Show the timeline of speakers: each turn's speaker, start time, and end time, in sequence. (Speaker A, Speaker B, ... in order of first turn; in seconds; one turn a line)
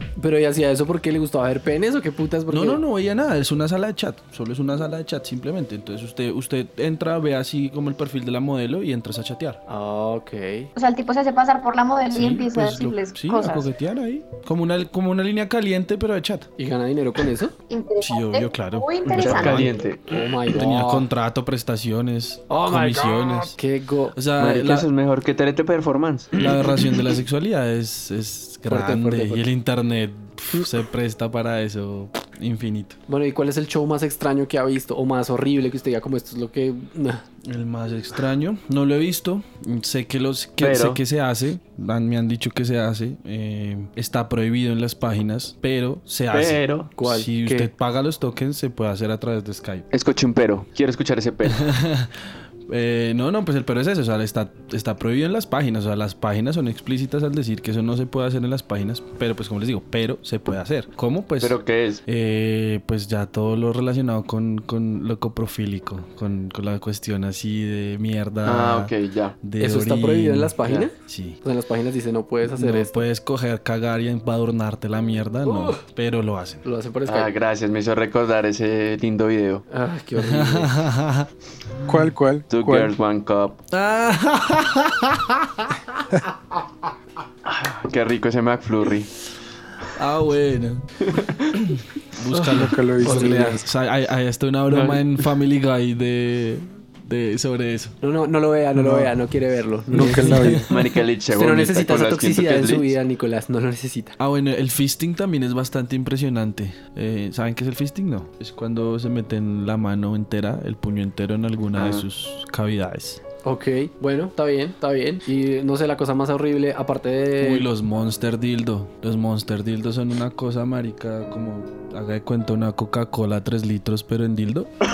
Speaker A: 0.2-2.8
Speaker B: 2.5-9.6
Speaker A: 9.7-10.7
Speaker C: 10.7-13.7
Speaker B: 12.1-16.5
Speaker A: 16.6-17.5
Speaker C: 17.7-19.7
Speaker B: 18.0-19.7
Speaker D: 19.1-20.1
Speaker A: 20.0-21.1
Speaker B: 20.5-23.6
Speaker A: 22.5-24.2
Speaker B: 24.1-24.9
Speaker D: 24.4-26.3
Speaker B: 26.4-33.0
Speaker A: 28.7-29.4
Speaker A: 33.1-37.2
Speaker B: 37.4-49.9
Speaker D: 40.6-41.0
Speaker D: 46.3-46.9
Speaker A: 47.0-47.7
Speaker D: 49.9-51.7
Speaker B: 51.5-52.1
Speaker B: 52.7-71.4
Speaker D: 61.4-62.0
Speaker D: 68.4-69.4
Speaker A: 69.6-73.0
Speaker B: 72.4-76.6
Speaker A: 75.4-75.8
Speaker A: 76.6-77.3
Speaker D: 77.1-79.6
Speaker A: 79.7-80.7
Speaker B: 80.2-81.3
Speaker E: 81.9-82.9
Speaker D: 82.5-83.6
Speaker B: 83.7-86.0
Speaker D: 87.5-89.1
Speaker B: 90.0-90.9
Speaker D: 91.0-91.5
Speaker B: 91.5-98.0
Speaker A: 92.3-93.6
Speaker E: 92.4-93.6
Speaker D: 94.7-95.0
Speaker A: 98.0-100.6
Speaker B: 98.8-99.1
Speaker E: 99.9-100.7
Speaker B: 99.9-100.7
Speaker D: 100.7-102.9
Speaker A: 101.3-104.2
Speaker B: 104.2-113.2
Speaker D: 111.8-112.0
Speaker A: 113.4-117.7
Speaker B: 117.4-124.7